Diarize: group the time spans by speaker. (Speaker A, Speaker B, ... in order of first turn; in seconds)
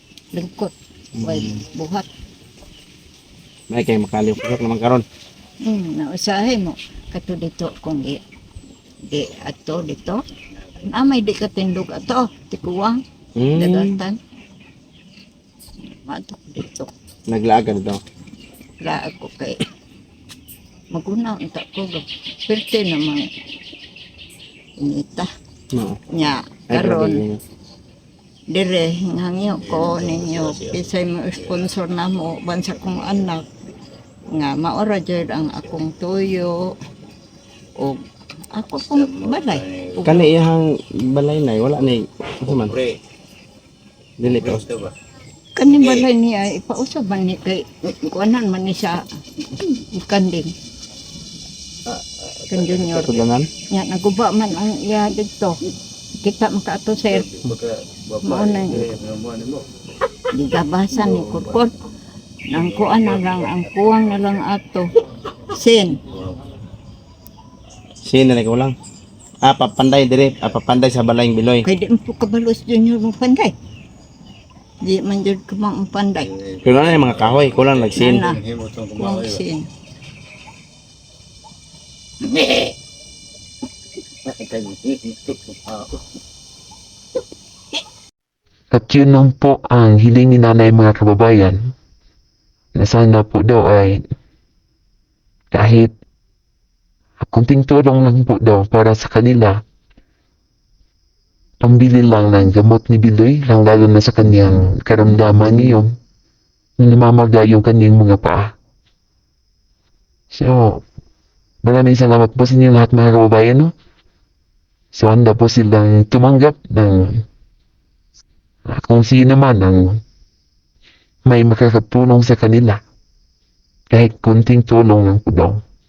Speaker A: 0.3-2.1, 5.6-8.2, 9.1-10.2, 10.8-13.0, 13.5-14.2, 15.9-16.9, 18.8-19.6, 20.9-23.3, 24.8-25.3, 26.1-27.2, 28.5-33.4, 34.3-36.7, 38.5-40.3, 45.5-49.0, 49.6-50.5, 52.5-53.2, 53.7-55.5, 56.2-57.5, 58.2-58.9, 60.3-61.7, 62.5-64.9, 65.5-66.0, 71.6-73.5, 74.8-76.3, 77.9-79.7
Speaker B: 1.2-1.5, 3.7-5.0, 13.4-14.0, 17.3-18.0, 25.7-26.0, 26.7-27.4, 40.0-42.9, 44.2-44.9, 52.8-53.5, 68.0-68.7, 69.4-71.6, 76.6-78.2, 84.3-85.3
Speaker C: 88.7-91.7, 92.7-94.1, 95.5-95.9, 97.2-99.6, 101.6-105.9, 106.8-108.5, 110.3-110.8, 111.6-113.7, 114.9-117.2, 118.7-120.0, 121.2-122.8, 123.9-125.6